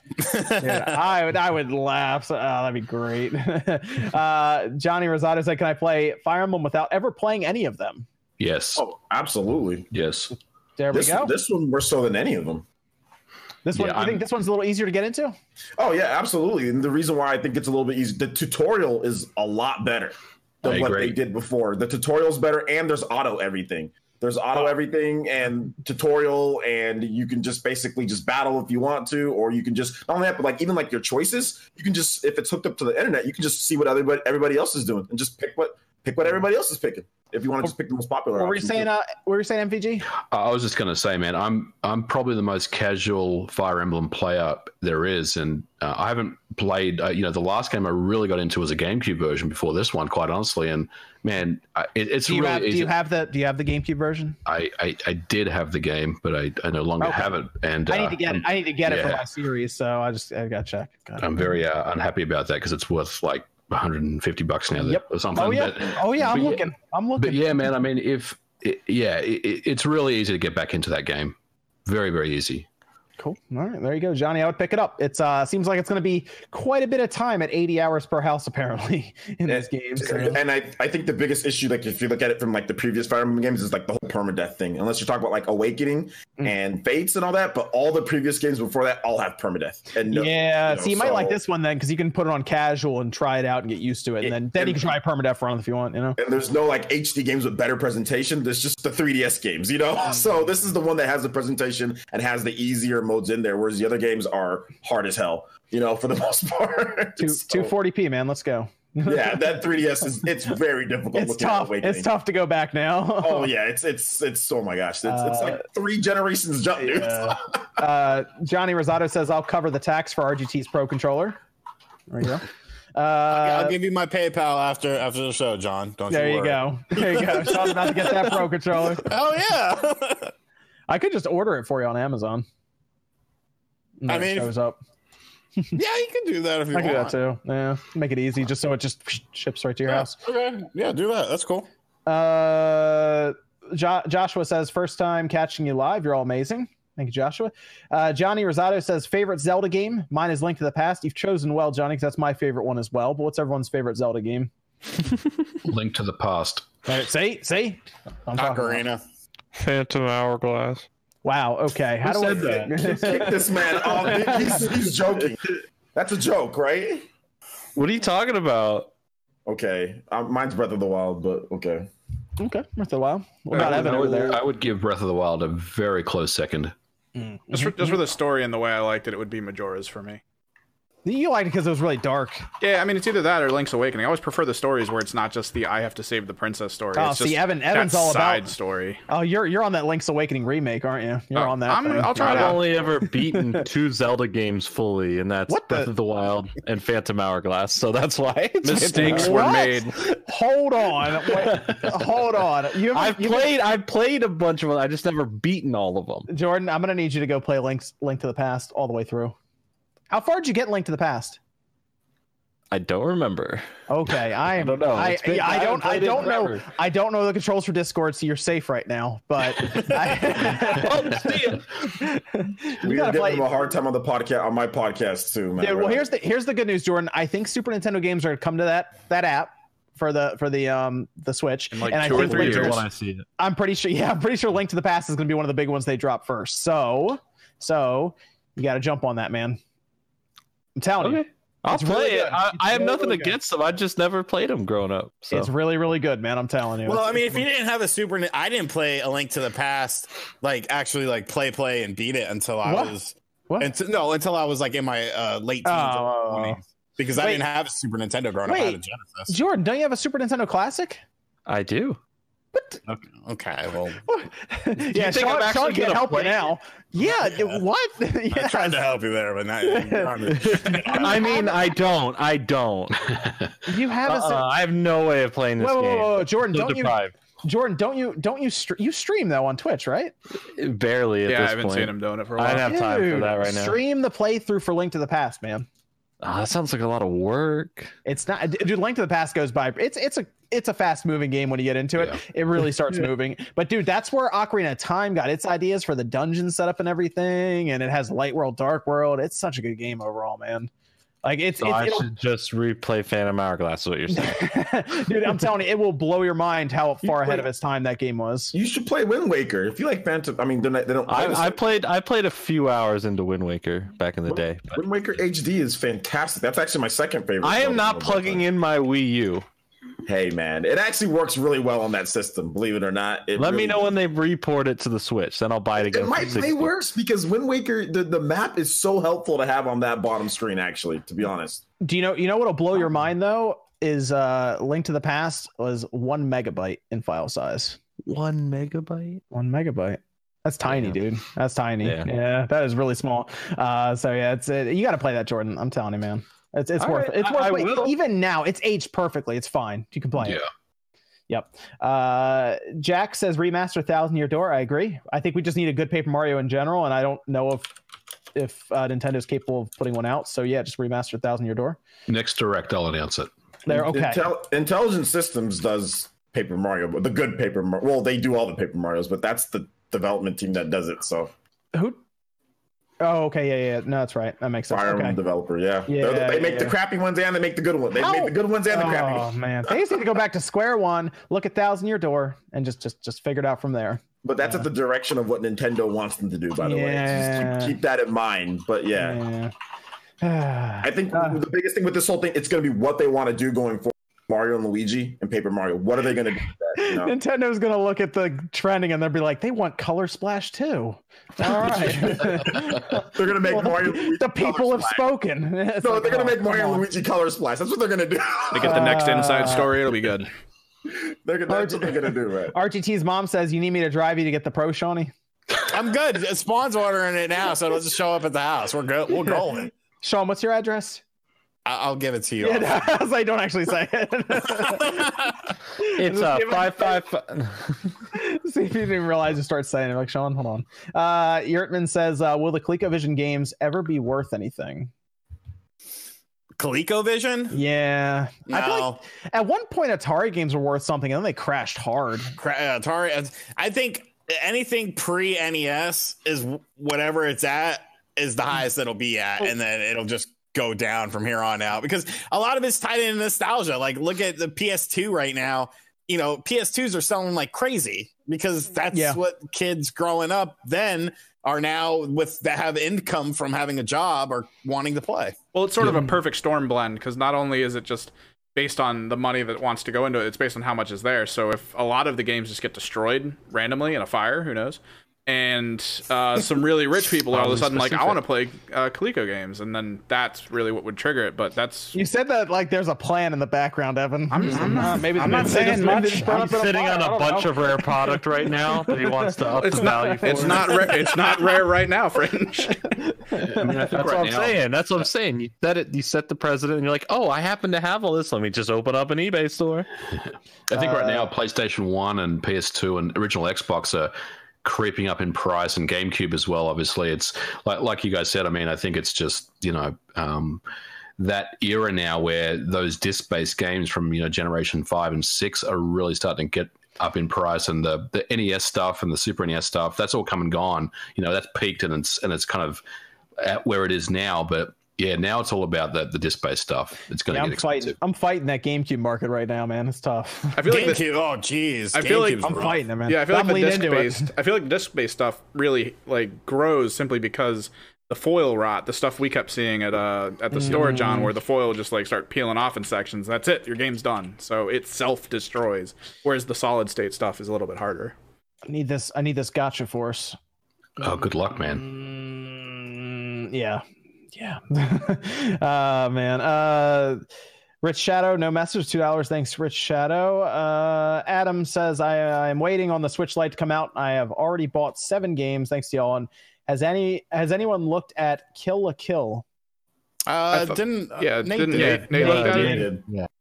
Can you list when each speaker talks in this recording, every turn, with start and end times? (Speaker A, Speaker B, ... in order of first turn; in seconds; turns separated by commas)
Speaker A: 0.2-0.9, Speaker B: 0.6-8.1, Speaker C: 8.4-8.8, Speaker D: 8.8-9.9, Speaker C: 9.9-10.3, Speaker B: 10.8-11.3, Speaker D: 10.9-12.6, Speaker B: 13.6-15.3, Speaker C: 13.7-14.2, Speaker D: 15.8-38.9, Speaker C: 20.6-21.1, Speaker B: 38.4-40.1, Speaker C: 40.2-52.9, Speaker B: 52.2-54.4, Speaker C: 54.5-59.2, Speaker B: 57.0-57.3, Speaker B: 57.9-61.5, Speaker C: 61.2-66.6, Speaker B: 64.8-67.6, Speaker C: 67.2-71.3, Speaker C: 71.8-72.7, Speaker B: 73.2-80.4, Speaker D: 79.5-91.4, Speaker B: 90.1-96.2, Speaker D: 94.2-94.9, Speaker D: 96.2-107.7, Speaker B: 107.2-109.6, Speaker D: 109.0-112.1, Speaker B: 111.1-113.5, Speaker D: 113.2-117.4, Speaker B: 115.0-115.6, Speaker B: 116.8-121.4, Speaker B: 122.1-123.8, Speaker A: 123.3-128.4, Speaker B: 126.1-129.1, Speaker A: 129.0-130.3, Speaker B: 130.9-132.4, Speaker B: 134.0-134.8, Speaker A: 134.1-134.5, Speaker A: 135.7-137.1, Speaker B: 136.7-140.1, Speaker A: 139.9-141.7, Speaker B: 142.1-154.5, Speaker C: 155.6-156.7, Speaker B: 156.9-158.8, Speaker A: 158.4-159.0, Speaker E: 159.5-160.8, Speaker B: 161.2-164.7, Speaker E: 162.0-163.1, Speaker D: 162.2-167.1, Speaker E: 167.7-168.9, Speaker D: 169.5-171.9, Speaker B: 172.4-174.4, Speaker C: 173.5-176.7, Speaker B: 177.2-178.0, Speaker F: 177.5-180.2, Speaker B: 181.0-182.4, Speaker F: 182.6-189.0, Speaker B: 186.9-188.5, Speaker B: 189.1-192.6, Speaker F: 191.3-192.8, Speaker E: 192.2-199.4, Speaker B: 193.3-193.6, Speaker B: 195.5-195.9, Speaker F: 198.6-200.1, Speaker B: 198.9-203.5, Speaker E: 201.4-201.8, Speaker E: 202.9-206.3, Speaker B: 206.3-209.3, Speaker B: 210.1-211.4, Speaker E: 212.7-213.7, Speaker B: 213.9-223.4, Speaker E: 214.5-216.7, Speaker E: 220.3-221.7, Speaker D: 222.8-226.0, Speaker B: 225.6-232.8, Speaker F: 231.7-232.8, Speaker E: 232.1-233.2, Speaker B: 233.4-239.6, Speaker B: 240.8-243.3, Speaker E: 241.0-245.5, Speaker B: 245.3-247.4, Speaker A: 246.8-259.3, Speaker B: 252.6-252.9, Speaker B: 255.6-256.6, Speaker B: 257.2-257.4, Speaker B: 258.4-261.0, Speaker E: 261.4-262.0, Speaker B: 262.5-262.8, Speaker A: 262.9-264.0, Speaker B: 264.1-268.9, Speaker E: 264.8-266.4, Speaker A: 268.3-271.3, Speaker B: 269.6-271.7, Speaker E: 270.4-273.2, Speaker C: 273.1-273.5, Speaker B: 273.6-274.5, Speaker E: 274.0-277.1, Speaker B: 275.6-280.1, Speaker E: 280.5-283.8, Speaker F: 281.2-282.8, Speaker B: 282.7-285.7, Speaker E: 286.2-287.9, Speaker B: 288.0-300.7, Speaker B: 301.2-302.1, Speaker E: 301.6-304.5, Speaker B: 304.1-308.5, Speaker E: 307.1-307.4, Speaker D: 308.5-311.6, Speaker E: 311.1-314.8, Speaker D: 314.3-318.4, Speaker E: 317.4-319.5, Speaker D: 320.1-323.8, Speaker E: 323.3-326.7, Speaker D: 325.8-331.6, Speaker B: 331.8-337.8, Speaker E: 338.0-339.2, Speaker B: 339.3-350.4, Speaker E: 340.6-340.9, Speaker E: 341.8-342.1, Speaker E: 346.8-347.9, Speaker C: 350.2-350.4, Speaker B: 351.3-357.7, Speaker B: 358.3-361.8, Speaker C: 362.1-363.3, Speaker B: 363.6-364.3, Speaker D: 363.7-371.3, Speaker B: 371.7-372.0, Speaker B: 373.0-375.2, Speaker D: 374.7-379.3, Speaker B: 375.9-376.8, Speaker B: 377.9-384.6, Speaker D: 384.2-389.2, Speaker B: 386.6-387.7, Speaker B: 389.0-389.5, Speaker B: 390.2-391.4, Speaker D: 390.8-397.1, Speaker B: 396.8-406.8, Speaker D: 401.6-405.0, Speaker D: 405.8-409.0, Speaker F: 408.5-410.3, Speaker B: 408.6-409.7, Speaker D: 410.9-412.5, Speaker B: 411.5-411.9, Speaker B: 412.5-415.1, Speaker A: 415.7-419.7, Speaker B: 420.0-421.0, Speaker A: 421.6-422.7, Speaker B: 422.4-425.1, Speaker A: 424.6-425.5, Speaker B: 425.8-427.0, Speaker E: 425.8-427.8, Speaker B: 428.1-434.9, Speaker A: 436.6-437.6, Speaker B: 437.5-442.3, Speaker A: 438.5-439.0, Speaker A: 442.4-465.4, Speaker B: 458.9-459.2, Speaker F: 465.5-482.0, Speaker B: 465.8-466.1, Speaker B: 481.9-490.9, Speaker F: 484.3-486.5, Speaker E: 485.7-490.9, Speaker F: 489.5-493.1, Speaker B: 493.3-493.8, Speaker C: 493.4-494.6, Speaker E: 493.6-499.9, Speaker C: 500.7-510.6, Speaker B: 500.7-501.3, Speaker C: 511.2-522.8, Speaker C: 523.4-527.9, Speaker B: 527.3-530.6, Speaker F: 530.5-531.0, Speaker A: 530.7-532.8, Speaker F: 531.9-548.1, Speaker B: 532.4-534.3, Speaker B: 540.5-541.3, Speaker B: 548.7-550.4, Speaker C: 551.0-551.8, Speaker B: 551.0-557.2, Speaker B: 557.8-569.4, Speaker A: 570.3-572.8, Speaker F: 570.5-572.9, Speaker E: 571.7-573.3, Speaker D: 572.6-573.0